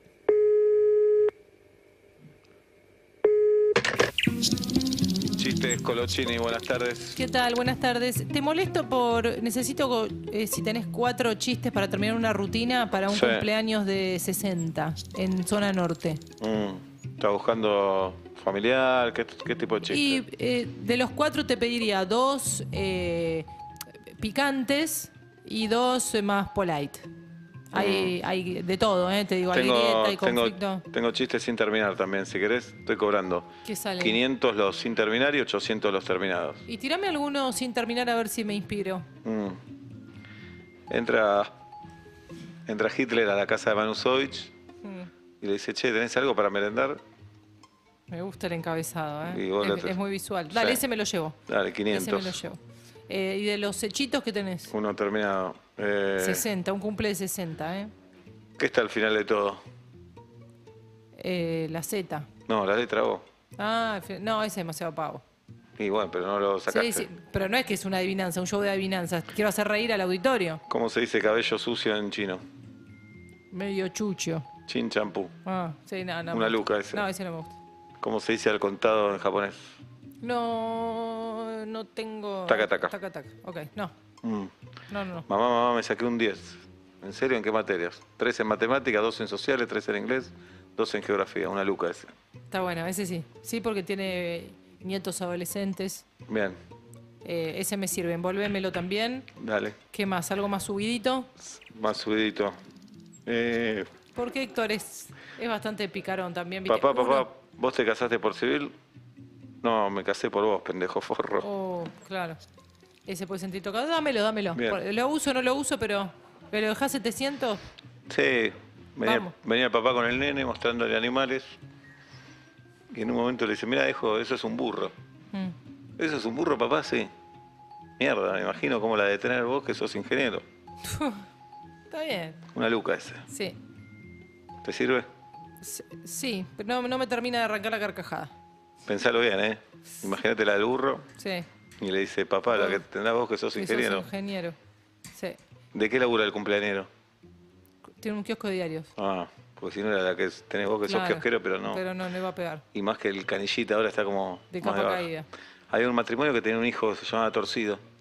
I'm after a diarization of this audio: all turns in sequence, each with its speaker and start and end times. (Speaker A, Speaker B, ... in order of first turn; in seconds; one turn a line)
Speaker A: 5.4-7.2
Speaker B: 7.2-16.2
Speaker A: 13.1-13.5
Speaker A: 16.4-20.2
Speaker B: 19.9-23.5
Speaker B: 24.1-27.1
Speaker B: 27.7-30.9
Speaker A: 27.7-28.2
Speaker A: 29.5-36.7
Speaker B: 33.6-34.2
Speaker B: 36.7-39.1
Speaker A: 39.2-39.6
Speaker A: 40.9-41.5
Speaker A: 42.7-44.5
Speaker B: 44.8-45.1
Speaker A: 45.4-47.0
Speaker B: 48.1-51.4
Speaker A: 49.2-50.8
Speaker A: 51.5-52.4
Speaker B: 51.9-54.7
Speaker A: 54.7-56.5
Speaker B: 56.2-57.9
Speaker A: 58.6-59.6
Speaker B: 61.2-62.3
Speaker A: 62.5-63.2
Speaker B: 63.6-65.2
Speaker A: 65.8-67.1
Speaker B: 66.7-70.6
Speaker A: 70.7-72.4
Speaker B: 73.5-74.5
Speaker A: 74.7-75.3
Speaker B: 75.5-77.5
Speaker A: 76.3-77.1
Speaker A: 78.0-79.7
Speaker B: 80.2-83.9
Speaker A: 82.5-82.9
Speaker A: 84.2-84.5
Speaker B: 84.9-85.3
Speaker A: 85.3-92.1
Speaker B: 92.5-96.0
Speaker A: 96.3-96.6
Speaker B: 97.2-99.3
Speaker A: 99.4-99.8
Speaker B: 99.9-101.3
Speaker A: 101.7-102.6
Speaker A: 103.3-103.9
Speaker B: 104.1-107.3
Speaker A: 106.7-108.7
Speaker A: 109.6-111.5
Speaker B: 111.4-112.4
Speaker B: 113.1-117.6
Speaker A: 114.5-114.8
Speaker A: 118.1-121.6
Speaker B: 119.0-119.3
Speaker A: 122.9-124.9
Speaker A: 126.0-127.1
Speaker A: 128.0-130.4
Speaker B: 130.9-131.2
Speaker B: 131.9-132.4
Speaker A: 132.5-133.3
Speaker B: 133.3-133.6
Speaker A: 134.6-135.1
Speaker B: 135.6-138.3
Speaker A: 138.9-141.1
Speaker B: 141.2-141.5
Speaker A: 141.8-144.1
Speaker B: 142.5-142.8
Speaker B: 143.6-144.6
Speaker B: 145.1-145.4
Speaker A: 145.7-146.9
Speaker B: 148.0-148.9
Speaker A: 149.0-151.8
Speaker B: 150.9-152.6
Speaker A: 152.7-155.1
Speaker B: 154.5-155.3
Speaker A: 155.7-157.8